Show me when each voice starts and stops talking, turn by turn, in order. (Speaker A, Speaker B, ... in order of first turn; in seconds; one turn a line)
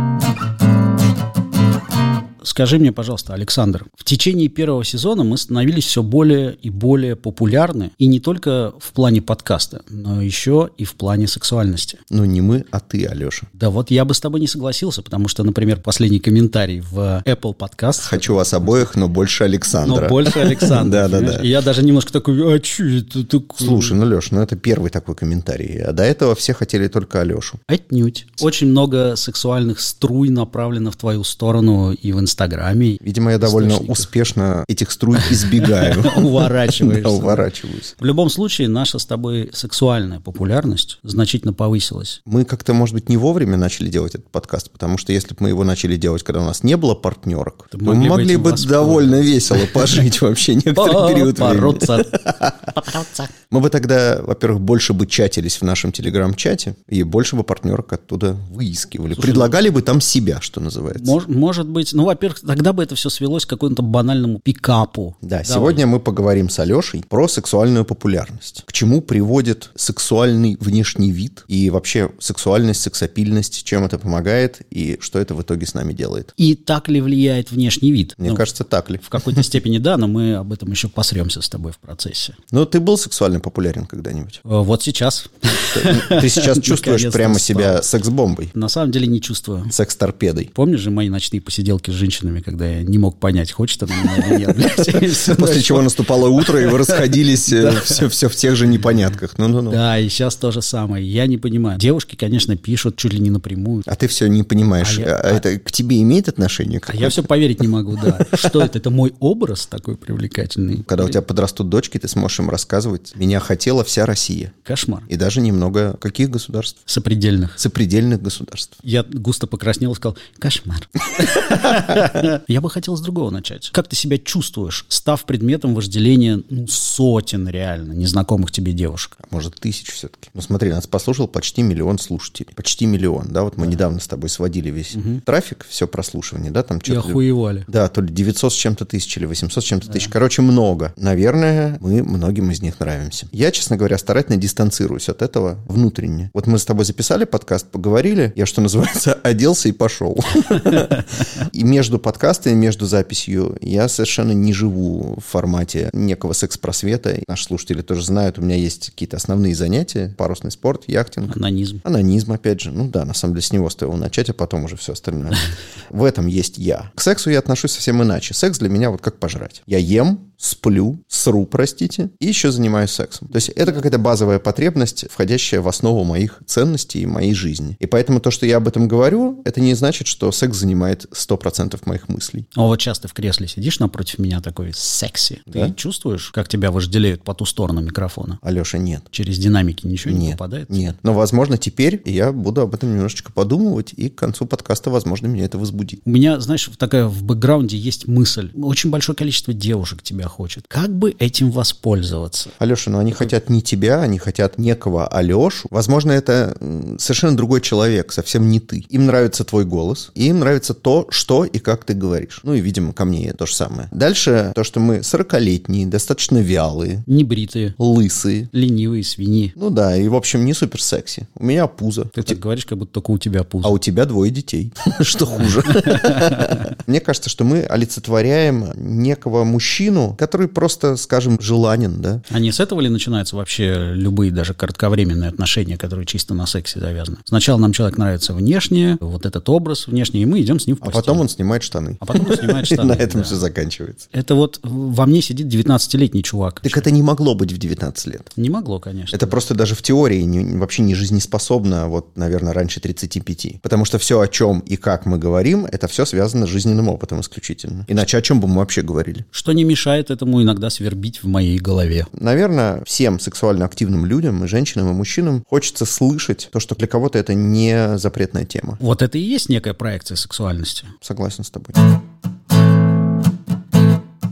Speaker A: 2.4-12.0
Speaker B: 12.1-13.5
Speaker A: 13.6-18.9
Speaker B: 18.0-21.5
Speaker A: 19.8-24.0
Speaker B: 23.6-27.6
Speaker A: 27.7-34.1
Speaker B: 33.0-37.9
Speaker A: 35.2-37.5
Speaker A: 38.0-42.2
Speaker B: 42.3-52.9
Speaker A: 47.7-50.0
Speaker A: 50.8-52.2
Speaker A: 52.8-53.3
Speaker B: 53.5-61.2
Speaker A: 59.1-59.5
Speaker A: 60.9-65.8
Speaker B: 65.2-76.3
Speaker A: 76.4-78.5
Speaker B: 78.2-79.5
Speaker A: 79.0-82.4
Speaker B: 82.5-84.4
Speaker A: 84.4-87.8
Speaker B: 85.5-88.5
Speaker A: 88.5-89.7
Speaker B: 89.7-90.5
Speaker A: 90.5-98.0
Speaker B: 94.1-99.8
Speaker A: 99.7-103.8
Speaker B: 103.8-107.3
Speaker A: 104.8-105.4
Speaker A: 106.9-111.2
Speaker B: 108.0-108.7
Speaker B: 110.8-114.5
Speaker A: 114.7-115.1
Speaker B: 115.1-116.8
Speaker A: 116.9-117.6
Speaker B: 117.6-118.8
Speaker A: 118.8-129.2
Speaker B: 129.2-182.5
Speaker A: 134.9-135.2
Speaker A: 136.9-137.7
Speaker A: 161.3-161.8
Speaker A: 182.5-188.4
Speaker B: 188.4-189.1
Speaker A: 189.1-190.9
Speaker B: 190.1-196.0
Speaker A: 196.0-202.5
Speaker B: 202.6-217.0
Speaker A: 217.1-217.8
Speaker B: 217.8-218.5
Speaker A: 218.5-219.5
Speaker B: 219.6-222.4
Speaker A: 222.2-223.8
Speaker B: 223.6-232.2
Speaker A: 225.7-226.6
Speaker A: 232.3-241.3
Speaker B: 240.8-244.0
Speaker A: 242.0-243.4
Speaker A: 244.1-246.8
Speaker B: 246.6-248.3
Speaker A: 248.3-249.3
Speaker B: 249.1-259.2
Speaker A: 259.3-262.1
Speaker B: 262.1-268.8
Speaker A: 268.8-270.9
Speaker B: 271.0-271.8